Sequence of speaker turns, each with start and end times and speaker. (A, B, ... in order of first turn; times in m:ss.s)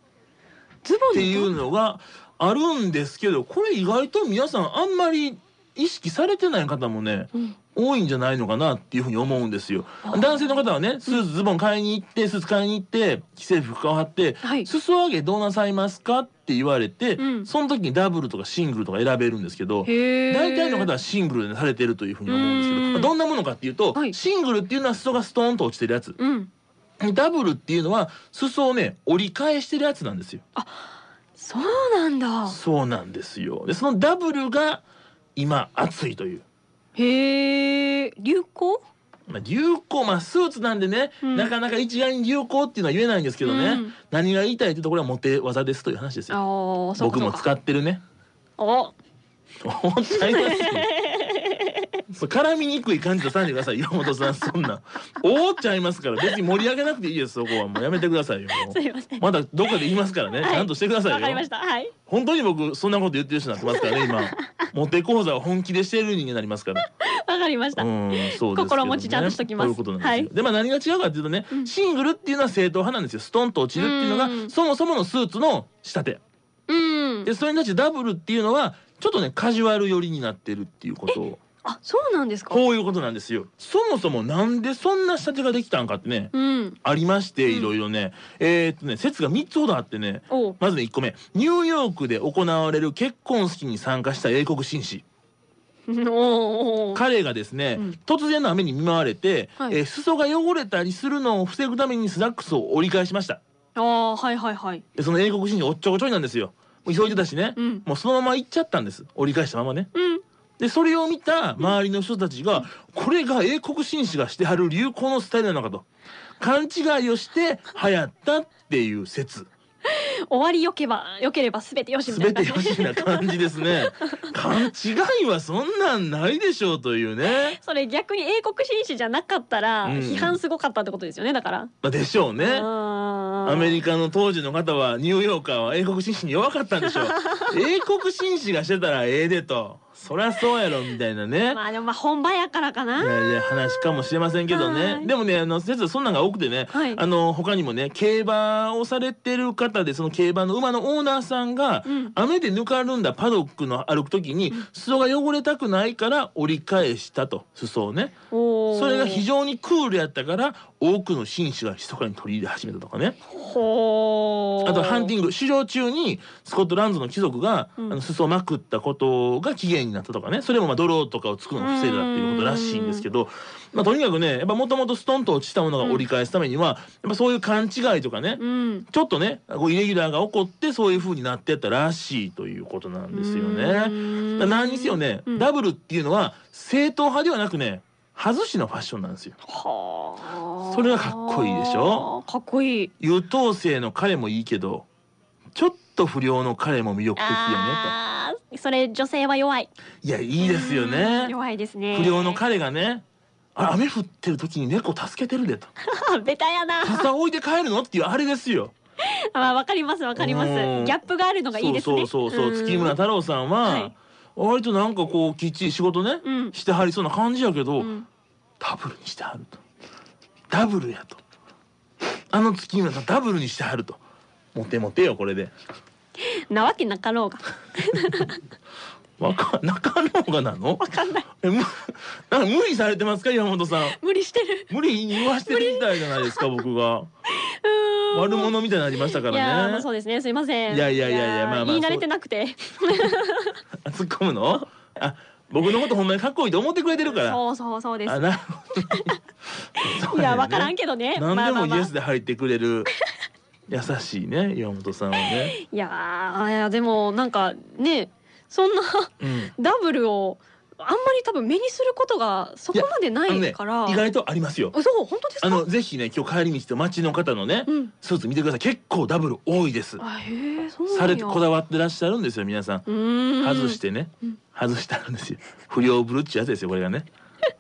0:00.8-0:01.5 A
0:01.1-0:26.2 B
0:10.0-0:11.2 A
0:14.4-0:14.7 A
0:17.2-0:17.5 A
0:19.8-0:20.9 A
0:22.3-0:23.1 A
0:26.2-0:26.5 A
0:27.0-0:30.4 B
0:30.6-0:32.6 A
0:32.5-0:34.8 B
0:35.4-0:36.4 B
0:37.0-0:38.8 A
0:39.3-0:46.4 B
0:41.2-0:41.5 A
0:43.4-0:43.9 A
0:46.3-0:47.5 A
0:47.0-0:48.0 B
0:48.6-0:48.9 A
0:49.6-0:50.9 B
0:50.1-0:52.0 A
0:52.1-1:01.4 B
0:58.5-0:59.8 A
1:00.4-1:01.9 A
1:02.1-1:06.8 B
1:03.6-1:04.6 A
1:07.0-1:10.3 A
1:07.8-1:16.2 B
1:13.8-1:14.5 A
1:16.7-1:17.3 A
1:17.2-1:21.4 B
1:21.1-1:22.6 A
1:22.5-1:35.0 B
1:26.3-1:26.8 A
1:30.3-1:30.6 A
1:35.9-1:37.0 A
1:37.0-1:43.4 B
1:43.8-1:44.8 A
1:45.0-1:49.9 B
1:47.6-1:47.8 A
1:49.9-1:50.2 A
1:50.6-1:55.9 B
1:56.4-1:59.5 B
1:59.9-2:04.3 A
2:02.1-2:07.6 B
2:07.3-2:11.7 A
2:09.8-2:10.4 B
2:11.8-2:12.7 B
2:12.4-2:13.8 A
2:13.4-2:21.6 B
2:21.5-2:23.8 A
2:23.0-2:38.2 B
2:24.5-2:25.1 A
2:26.7-2:27.0 A
2:31.9-2:32.1 A
2:38.3-2:39.2 A
2:38.7-2:43.2 B
2:43.3-2:45.1 A
2:44.6-3:09.4 B
2:51.6-2:53.1 A
2:55.8-2:56.0 A
2:58.4-2:58.9 A
3:03.1-3:05.5 A
3:09.5-3:12.9 A
3:10.6-3:12.1 B
3:13.0-3:14.9 B
3:15.6-3:18.0 B
3:17.2-3:19.7 A
3:20.0-3:21.4 B
3:20.4-3:22.4 A
3:21.9-3:23.0 B
3:23.6-3:25.7 B
3:25.8-3:27.1 A
3:26.8-3:28.7 B
3:29.0-3:33.0 A
3:30.2-3:31.0 B
3:31.5-3:37.9 B
3:33.6-3:33.9 A
3:36.2-3:36.6 A
3:37.8-3:38.1 A
3:38.6-3:39.6 B
3:40.5-3:41.2 B
3:42.3-3:44.0 B
3:44.5-3:45.5 B
3:46.2-3:48.4 A
3:49.2-3:54.0 B
3:50.8-3:51.3 A
3:53.9-3:56.5 A
3:54.7-3:57.1 B
3:57.4-3:58.5 A
3:58.1-3:59.9 B
3:59.0-4:03.6 A
4:00.7-4:02.1 B
4:03.8-4:07.4 B
4:07.0-4:08.3 A
4:08.1-4:09.2 B
4:08.9-4:09.2 A
4:09.8-4:12.9 B
4:10.1-4:11.9 A
4:13.7-4:15.6 B
4:15.2-4:24.0 A
4:19.2-4:19.5 B
4:22.7-4:24.8 B
4:24.7-4:25.6 A
4:25.4-4:30.0 B
4:27.7-4:27.9 A
4:30.0-4:31.4 A
4:30.9-4:32.8 B
4:32.9-4:33.8 A
4:33.4-4:37.1 B